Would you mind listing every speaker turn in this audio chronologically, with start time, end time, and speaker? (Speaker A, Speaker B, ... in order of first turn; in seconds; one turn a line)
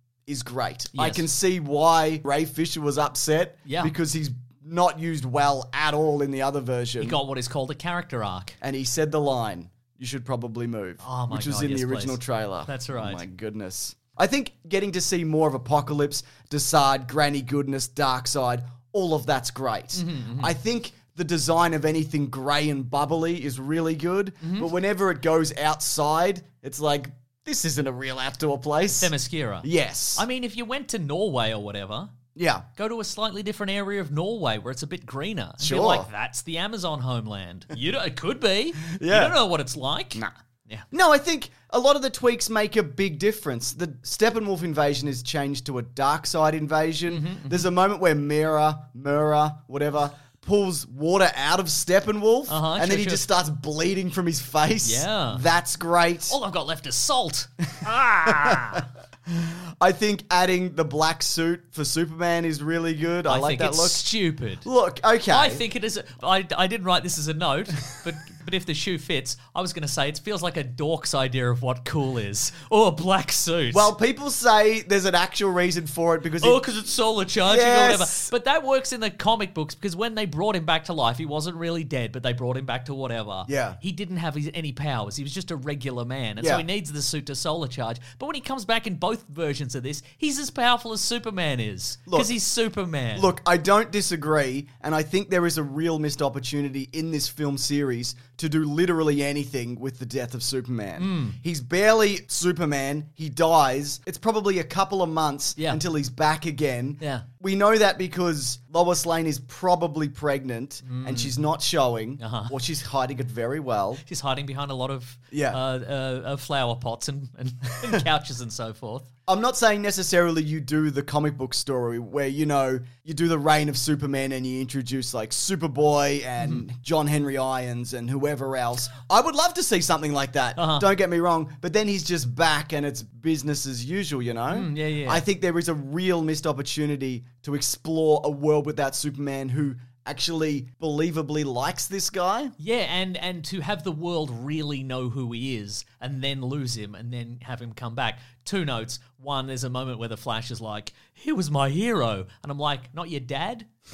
Speaker A: 0.2-7.2
Speaker B: 0.9-1.3
Speaker B: 3.6-3.9
Speaker B: 7.0-8.6
Speaker A: 8.6-30.2
Speaker B: 11.0-13.2
Speaker B: 19.9-20.5
Speaker B: 24.4-24.7
Speaker B: 29.0-32.1
Speaker A: 32.3-32.6
Speaker B: 32.8-40.9
Speaker A: 35.6-36.1
Speaker A: 38.8-39.4
Speaker A: 40.9-56.3
Speaker B: 47.1-47.6
Speaker B: 52.5-53.3
Speaker B: 54.8-55.4
Speaker B: 56.3-58.9
Speaker A: 58.2-64.0
Speaker B: 63.2-64.7
Speaker A: 64.6-65.6
Speaker B: 65.3-73.9
Speaker A: 73.7-76.6
Speaker B: 76.4-93.3
Speaker A: 77.4-78.3
Speaker A: 83.5-83.8
Speaker A: 86.4-86.6
Speaker A: 92.1-92.3
Speaker A: 93.1-114.0
Speaker B: 101.0-101.4
Speaker B: 105.5-105.8
Speaker B: 107.0-107.2
Speaker B: 110.8-111.4
Speaker B: 112.2-112.5
Speaker B: 114.0-119.1
Speaker A: 115.3-115.6
Speaker A: 119.3-142.5
Speaker B: 130.6-130.9
Speaker B: 134.5-135.2
Speaker B: 142.6-153.7